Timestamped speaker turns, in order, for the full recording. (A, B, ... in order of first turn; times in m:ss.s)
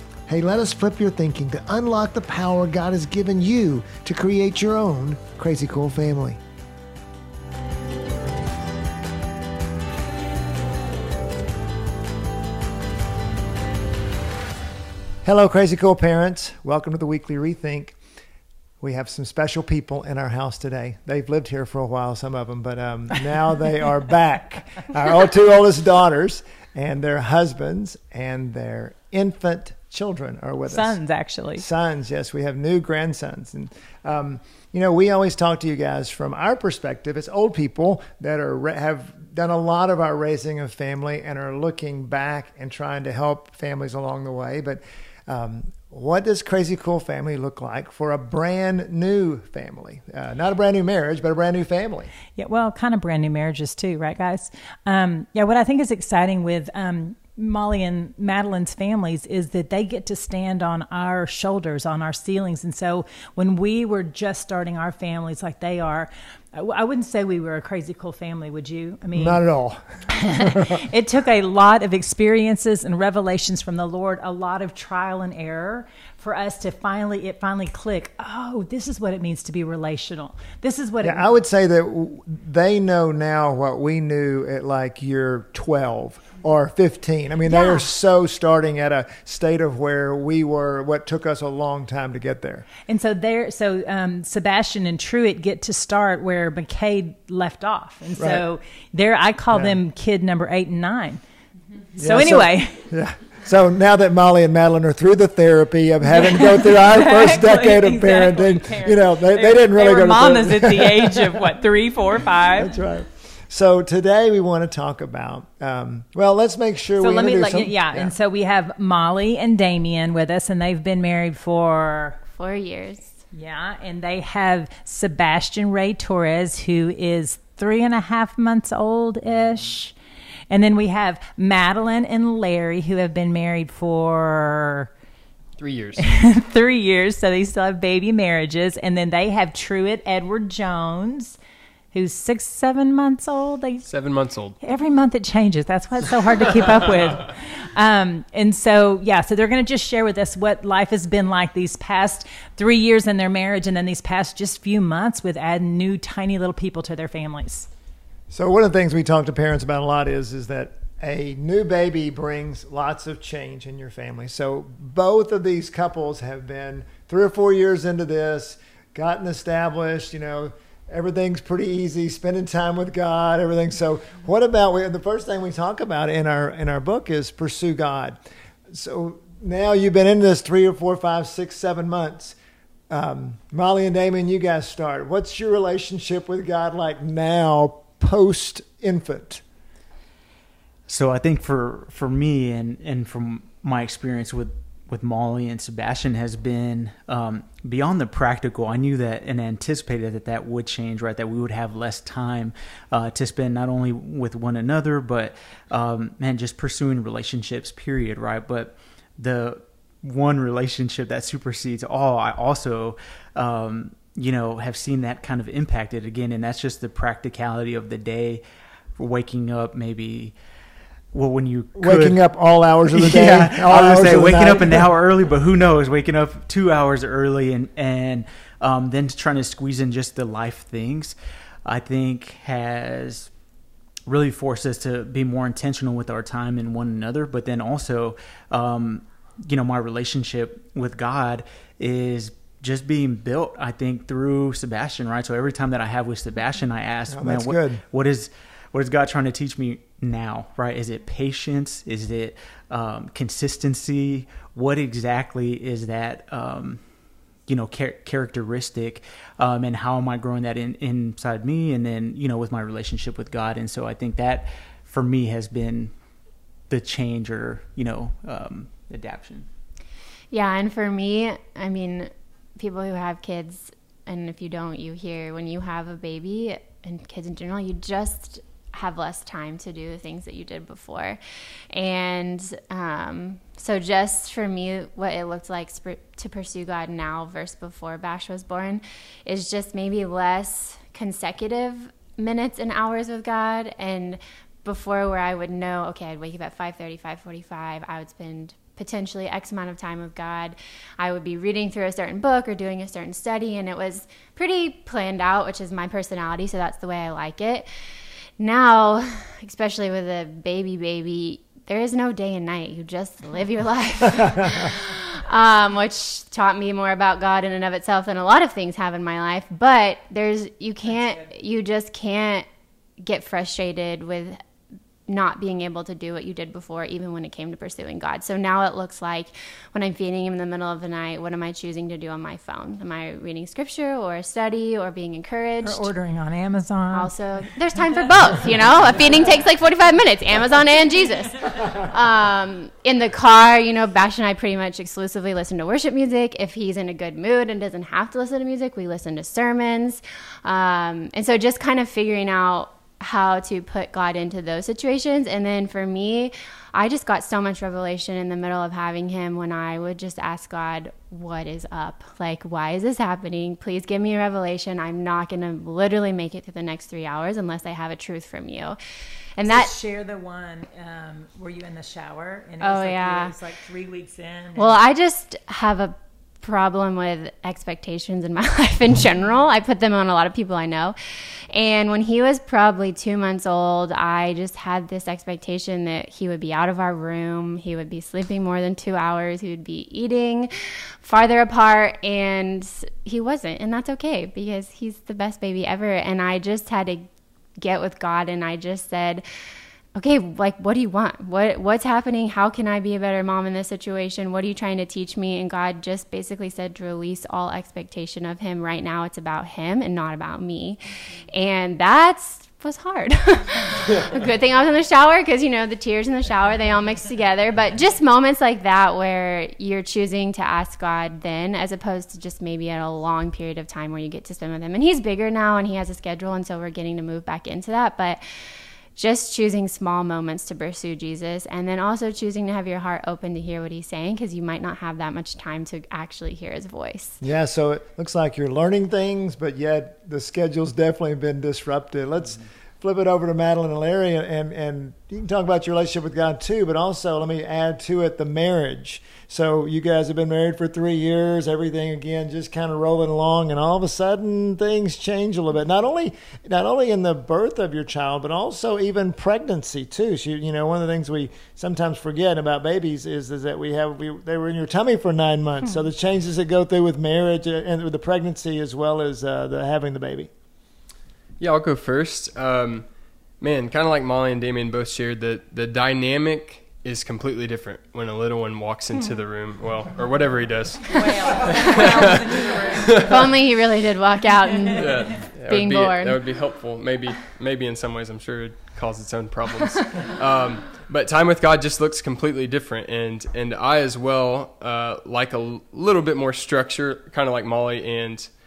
0:00.3-0:06.4 A
0:15.2-0:18.0 A
0:18.8-0:31.0 A
0:30.6-0:31.6 B
0:31.6-0:52.1 A
0:52.4-1:09.4 B
1:09.1-1:10.8 A
1:10.1-1:21.2 B
1:21.0-1:32.7 A
1:27.5-1:27.8 C
1:32.9-1:41.2 B
1:38.2-1:38.4 A
1:42.0-1:42.8 B
1:42.0-1:51.5 A
1:46.0-1:52.8 B
1:52.5-1:58.1 A
1:57.0-2:02.2 B
2:02.3-2:03.2 C
2:03.3-2:09.9 B
2:10.5-2:14.9 B
2:15.6-2:16.0 D
2:16.0-2:21.4 B
2:21.9-2:23.9 B
2:23.8-2:24.6 D
2:24.6-2:37.7 B
2:38.3-2:58.2 A
2:58.7-3:02.4 A
3:02.9-3:09.4 A
3:10.9-3:38.4 E
3:39.0-3:40.3 E
3:41.1-3:42.2 E
3:41.8-3:44.8 A
3:42.9-3:53.3 E
3:54.0-4:16.8 E
4:07.1-4:07.8 A
4:17.5-4:25.9 E
4:26.7-4:29.5 E
4:30.3-4:41.2 C
4:41.7-5:07.7 C
5:08.4-5:22.4 C
5:23.0-5:24.4 C
5:25.1-5:35.9 C
5:35.6-5:37.1 B
5:36.9-6:08.8 C
6:09.4-6:09.7 C
6:09.4-6:14.8 B
6:12.6-6:13.3 C
6:14.6-6:21.0 C
6:21.5-6:37.0 C
6:37.6-6:39.2 C
6:39.9-6:50.8 C
6:51.3-7:08.2 C
7:08.9-7:17.2 C
7:17.2-7:50.3 A
7:51.4-7:52.9 D
7:53.4-8:03.2 D
8:01.0-8:02.6 B
8:03.0-8:04.9 C
8:04.7-8:18.3 D
8:05.5-8:06.2 C